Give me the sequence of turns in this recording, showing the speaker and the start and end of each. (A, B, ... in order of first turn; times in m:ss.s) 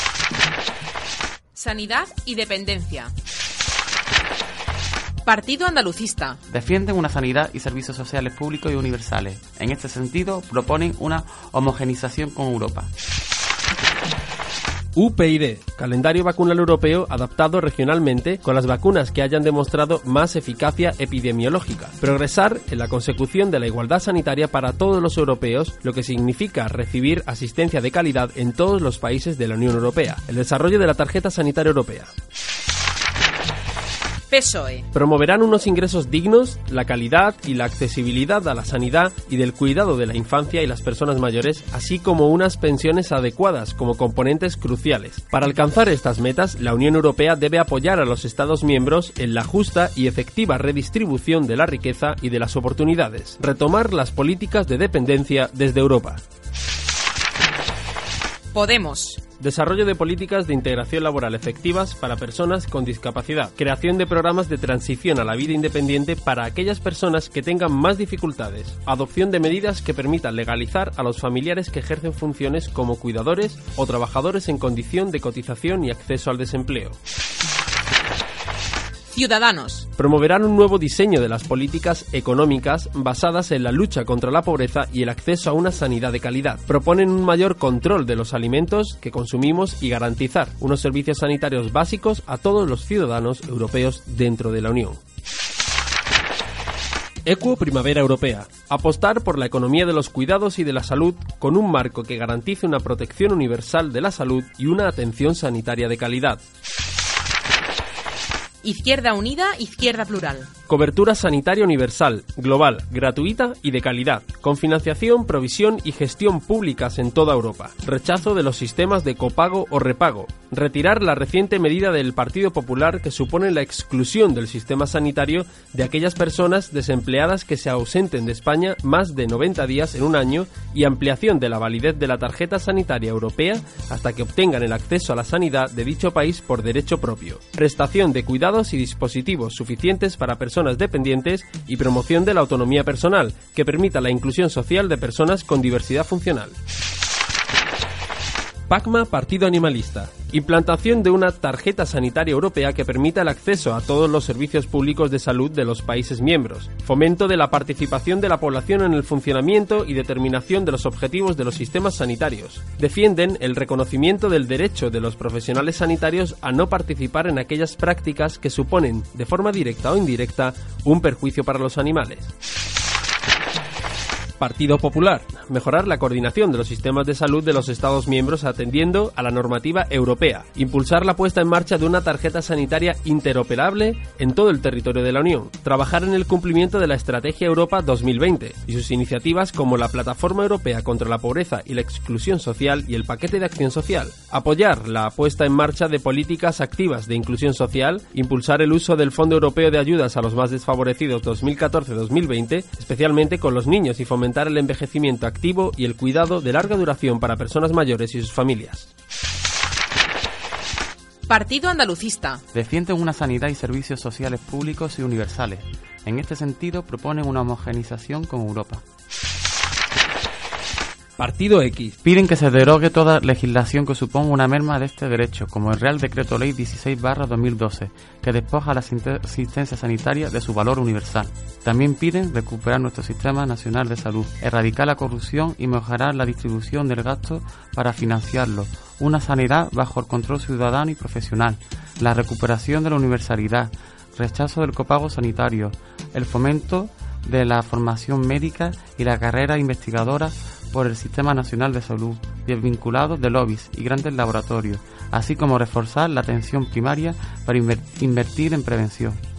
0:01.5-0:03.1 A
0:05.2-0:06.4 A
0:06.5-0:12.9 B
0:15.0-0:32.1 C
0:34.3-0:34.8 A
0:34.9-0:56.2 C
0:58.5-0:59.2 A
0:59.4-1:17.0 C
1:19.1-1:19.8 A
1:20.0-1:35.0 C
1:37.2-1:46.4 C
1:48.6-1:50.5 A
1:50.7-2:26.6 C
2:28.7-2:52.3 C
2:54.4-3:28.9 C
3:31.3-3:32.4 A
3:32.5-3:38.8 B
3:41.2-3:42.0 C
3:42.0-4:19.2 B